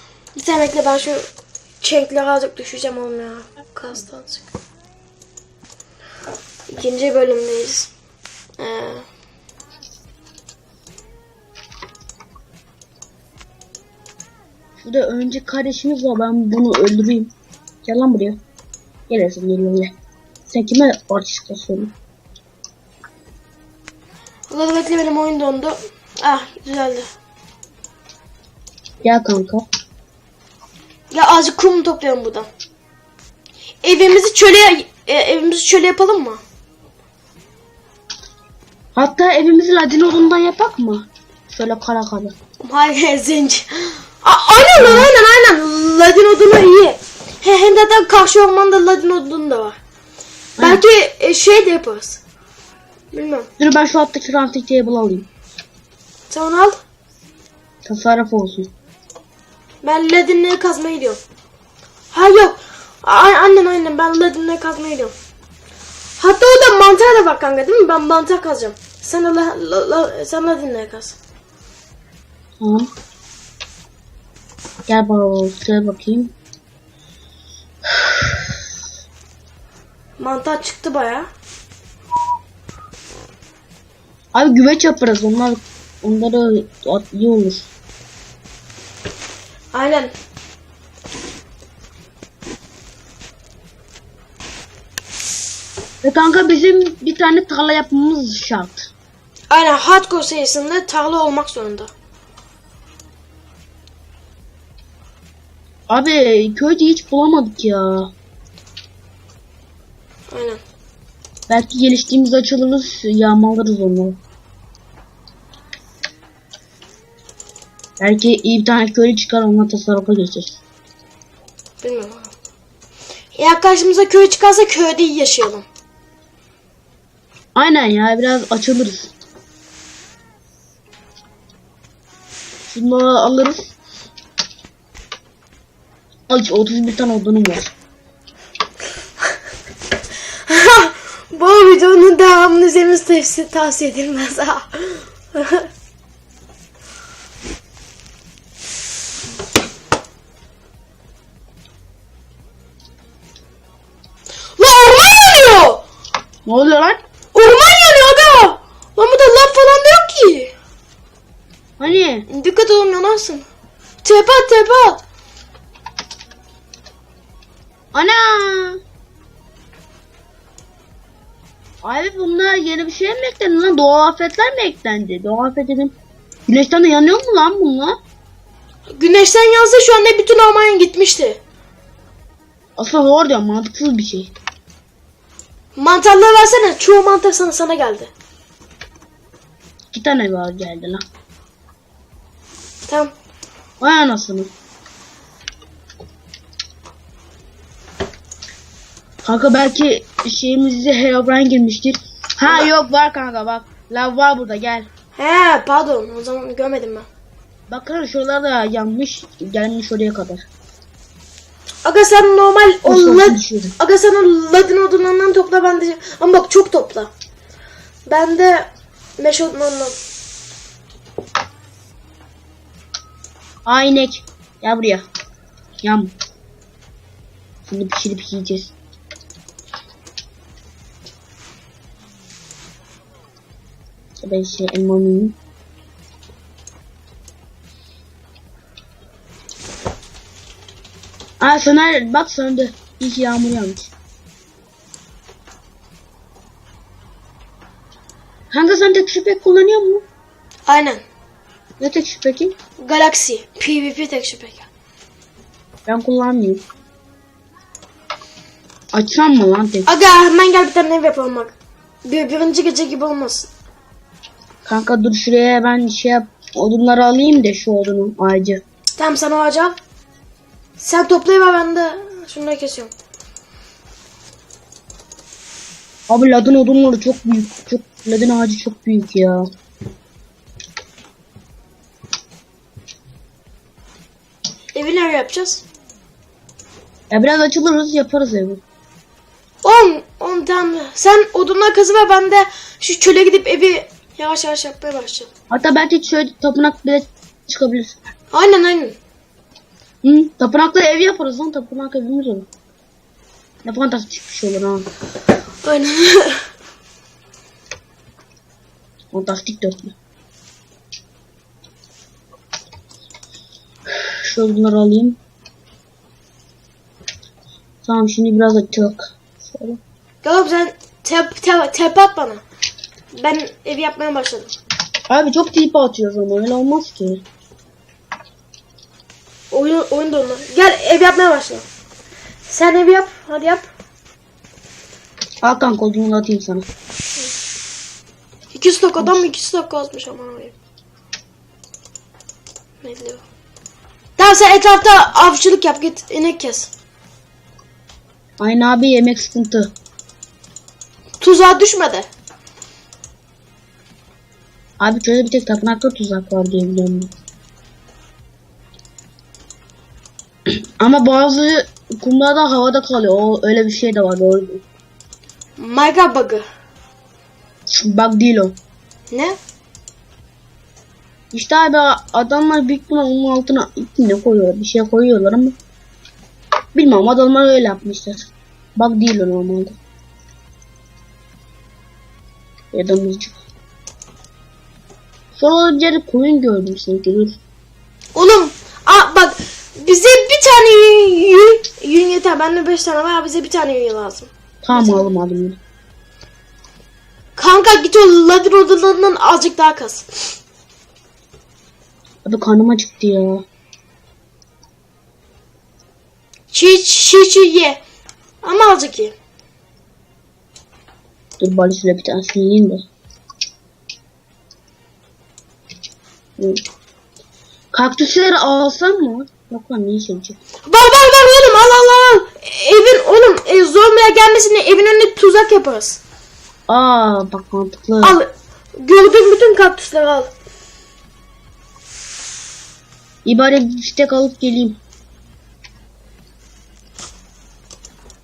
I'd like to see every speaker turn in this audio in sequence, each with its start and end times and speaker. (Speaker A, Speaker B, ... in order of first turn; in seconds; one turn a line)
Speaker A: 0.3-1.3
Speaker A: 1.8-4.5
Speaker A: 6.7-7.9
Speaker A: 8.6-9.1
Speaker B: 14.8-17.3
Speaker B: 17.8-18.4
Speaker B: 19.1-19.9
Speaker B: 20.5-21.9
Speaker A: 24.5-27.1
Speaker B: 29.0-29.6
Speaker A: 31.1-32.5
Speaker A: 33.8-36.4
Speaker B: 39.0-42.3
Speaker A: 42.6-49.8
Speaker B: 44.8-45.1
Speaker B: 50.6-50.8
Speaker A: 50.6-52.2
Speaker A: 53.1-53.5
Speaker B: 53.6-55.3
Speaker A: 56.3-56.8
Speaker B: 57.8-58.7
Speaker A: 59.8-61.2
Speaker A: 62.1-65.1
Speaker A: 66.2-71.2
Speaker B: 72.6-72.9
Speaker B: 74.9-76.3
Speaker B: 77.9-78.2
Speaker A: 80.2-81.3
Speaker B: 84.3-87.7
Speaker A: 89.7-90.1
Speaker B: 96.0-98.9
Speaker A: 99.5-101.9
Speaker B: 105.9-108.1
Speaker A: 110.3-110.6
Speaker B: 111.5-114.2
Speaker B: 118.0-120.6
Speaker A: 121.8-122.3
Speaker A: 123.3-125.7
Speaker B: 127.5-129.1
Speaker B: 132.7-133.7
Speaker B: 136.3-137.7
Speaker A: 140.5-145.7
Speaker A: 154.6-155.8
Speaker B: 156.4-157.0
Speaker A: 157.3-160.5
Speaker B: 161.8-162.2
Speaker A: 162.3-163.4
Speaker A: 164.0-165.0
Speaker B: 167.9-168.8
Speaker B: 171.8-175.9
Speaker B: 176.5-178.0
Speaker A: 178.9-181.4
Speaker B: 182.8-184.3
Speaker A: 185.8-188.1
Speaker B: 189.9-191.0
Speaker A: 192.9-193.1
Speaker B: 193.8-194.5
Speaker B: 199.2-204.9
Speaker A: 205.2-207.1
Speaker B: 207.7-210.4
Speaker A: 211.8-217.1
Speaker B: 212.8-213.7
Speaker A: 218.1-219.9
Speaker B: 223.7-225.1
Speaker B: 225.8-226.1
Speaker B: 227.6-228.7
Speaker B: 234.2-235.4
Speaker B: 241.4-243.9
Speaker B: 248.5-250.0
Speaker A: 250.7-251.0
Speaker B: 251.8-252.5
Speaker A: 252.8-254.7
Speaker B: 255.8-256.6
Speaker B: 258.9-259.9
Speaker A: 259.9-263.5
Speaker B: 264.6-268.6
Speaker A: 269.0-269.8
Speaker A: 270.8-272.9
Speaker B: 276.1-279.4
Speaker A: 284.7-285.6
Speaker B: 287.1-288.6
Speaker A: 289.6-295.3
Speaker B: 295.5-298.0
Speaker A: 298.3-299.0
Speaker B: 300.0-302.5
Speaker B: 303.6-304.9
Speaker A: 305.6-306.4
Speaker B: 309.1-309.9
Speaker B: 314.2-315.2
Speaker B: 317.8-319.8
Speaker A: 320.2-322.4
Speaker A: 323.1-324.5
Speaker B: 325.1-327.2
Speaker A: 329.5-331.6
Speaker A: 332.4-333.7
Speaker B: 335.4-336.6
Speaker A: 338.5-340.5
Speaker A: 342.8-343.2
Speaker A: 344.2-346.7
Speaker B: 348.4-349.7
Speaker A: 351.2-352.1
Speaker B: 354.8-357.1
Speaker B: 360.5-364.6
Speaker A: 365.6-366.4
Speaker B: 367.7-368.5
Speaker A: 369.1-369.4
Speaker B: 371.3-375.6
Speaker B: 376.7-379.8
Speaker B: 382.7-383.4
Speaker B: 385.4-387.4
Speaker A: 388.1-395.1
Speaker B: 394.6-395.6
Speaker A: 397.4-400.3
Speaker B: 402.2-403.4
Speaker A: 406.5-407.8
Speaker A: 408.4-409.1
Speaker B: 411.4-412.8
Speaker B: 417.7-420.4
Speaker A: 420.6-426.0
Speaker B: 426.7-428.2
Speaker A: 428.0-430.3
Speaker B: 433.2-434.8